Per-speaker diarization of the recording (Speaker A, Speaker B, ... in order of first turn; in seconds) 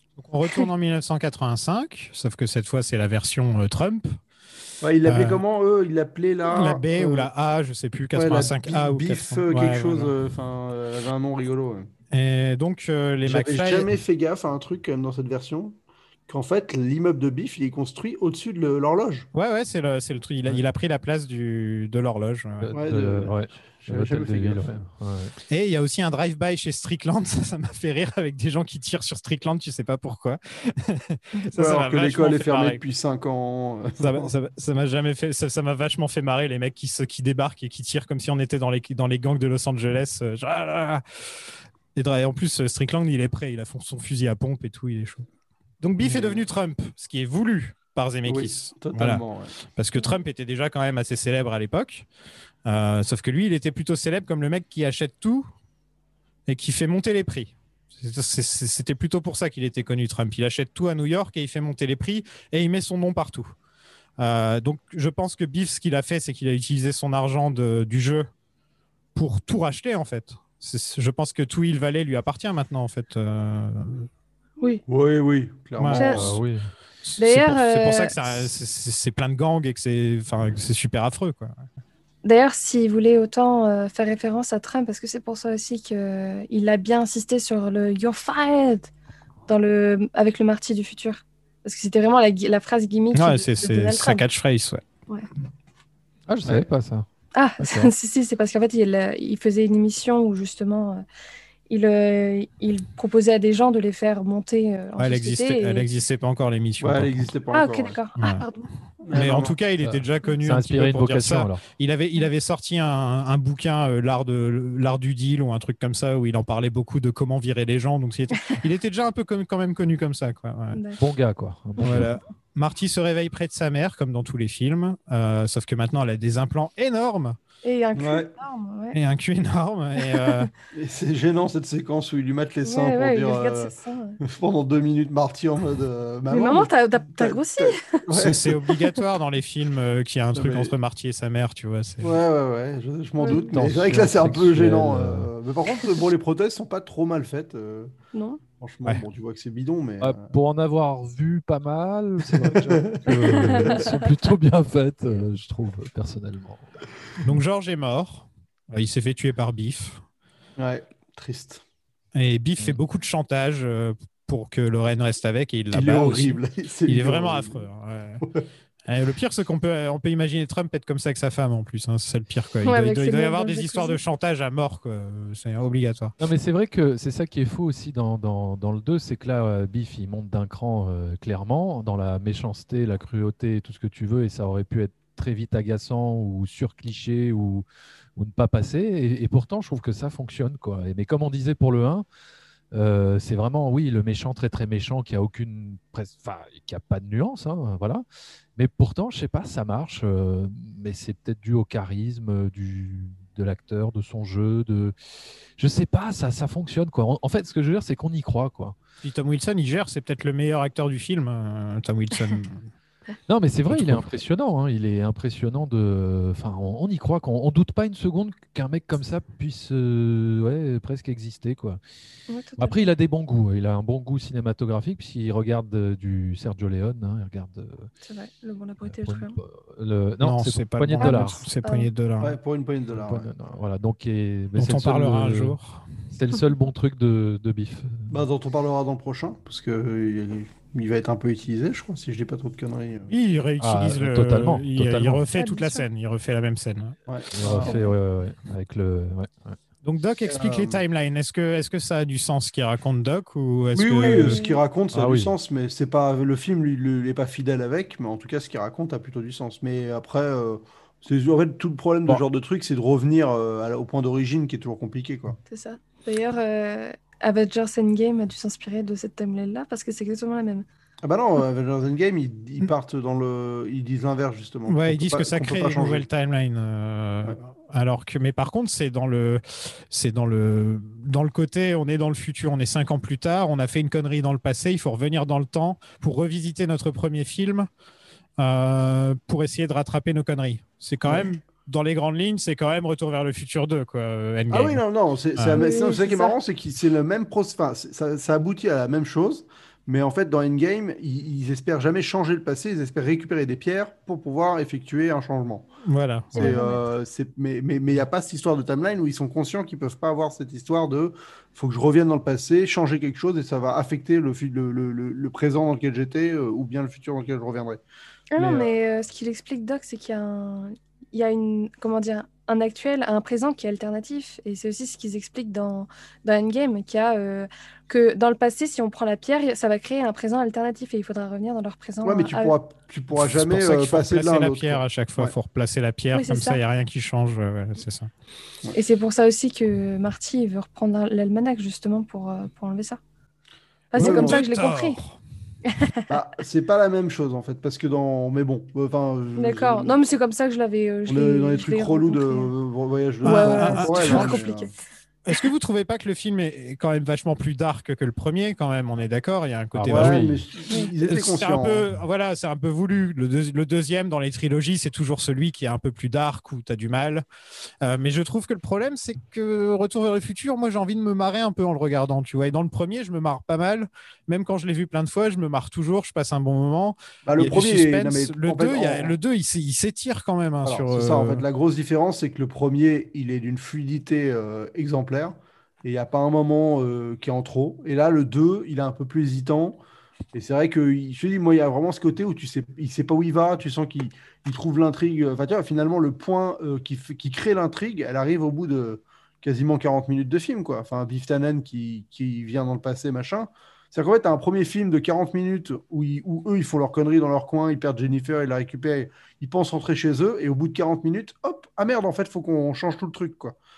Speaker A: 0.2-4.2, 5.0-5.4, 6.5-10.1, 12.1-13.9, 19.3-22.7, 25.5-32.8, 34.0-41.0, 42.0-45.2, 45.8-49.2, 49.8-52.1, 52.7-55.5, 56.5-63.5, 64.2-68.3, 69.2-74.1, 75.8-76.2, 77.0-81.6, 93.1-94.8, 105.0-107.3, 108.2-108.4, 109.1-120.8, 121.8-127.4, 128.9-130.5, 138.1-142.2, 157.2-160.0, 162.2-168.2, 168.9-176.2, 209.0-212.7, 213.7-214.1, 230.2-232.3, 234.6-235.8, 243.1-247.0, 249.8-254.4, 274.7-287.7, 288.4-294.8, 305.9-306.6, 333.2-338.1, 343.9-345.2, 353.2-354.4, 355.3-360.2, 361.1-367.2, 367.8-381.4
Speaker B: 4.8-7.3, 8.1-11.9, 13.2-15.8, 16.3-19.3, 22.7-24.8, 31.6-34.3, 46.0-46.5, 48.2-49.5, 74.9-76.4, 106.8-108.0, 109.0-109.6, 128.0-128.3, 130.7-138.6, 140.3-140.8, 142.0-147.9, 148.6-150.3, 152.3-153.7, 160.6-161.6, 165.7-167.7, 232.2-233.3, 238.1-243.1, 247.1-247.8, 250.2-250.8, 253.7-265.4, 271.0-276.1, 291.1-291.3, 294.5-305.7, 306.3-317.8, 318.4-318.7, 332.0-335.3, 343.9-344.4, 346.1-350.0, 351.1-354.7, 359.9-361.9, 377.2-379.2, 380.6-389.8, 390.3-413.6
Speaker C: 22.6-25.3, 76.2-76.7, 96.3-97.1, 97.6-97.9, 109.8-111.6, 121.0-122.1, 143.5-145.3, 150.0-156.7, 176.2-187.7, 188.2-192.1, 192.7-198.0, 198.6-204.9, 205.6-208.8, 213.3-221.8, 222.6-227.9, 228.8-231.5, 232.9-235.6, 236.1-238.2, 243.6-245.2, 247.3-249.6, 254.9-255.3, 359.7-360.4
Speaker D: 76.0-76.3, 77.2-78.5, 82.2-88.9, 89.5-94.2, 97.4-101.0, 101.7-105.9, 107.5-108.7, 120.7-121.0, 121.8-122.1, 127.6-129.0, 130.0-130.5, 132.7-134.2, 136.3-137.9, 143.2-143.4, 148.1-148.4, 153.7-154.0, 172.7-174.0, 222.3-222.8, 228.1-229.4, 231.0-231.9, 245.4-245.9, 247.6-247.9, 254.1-254.6, 265.5-270.6, 295.6-296.4, 306.4-306.8, 318.3-332.5, 336.1-336.6, 338.7-343.0, 343.9-345.0, 345.7-346.1, 349.4-352.5, 353.2-354.8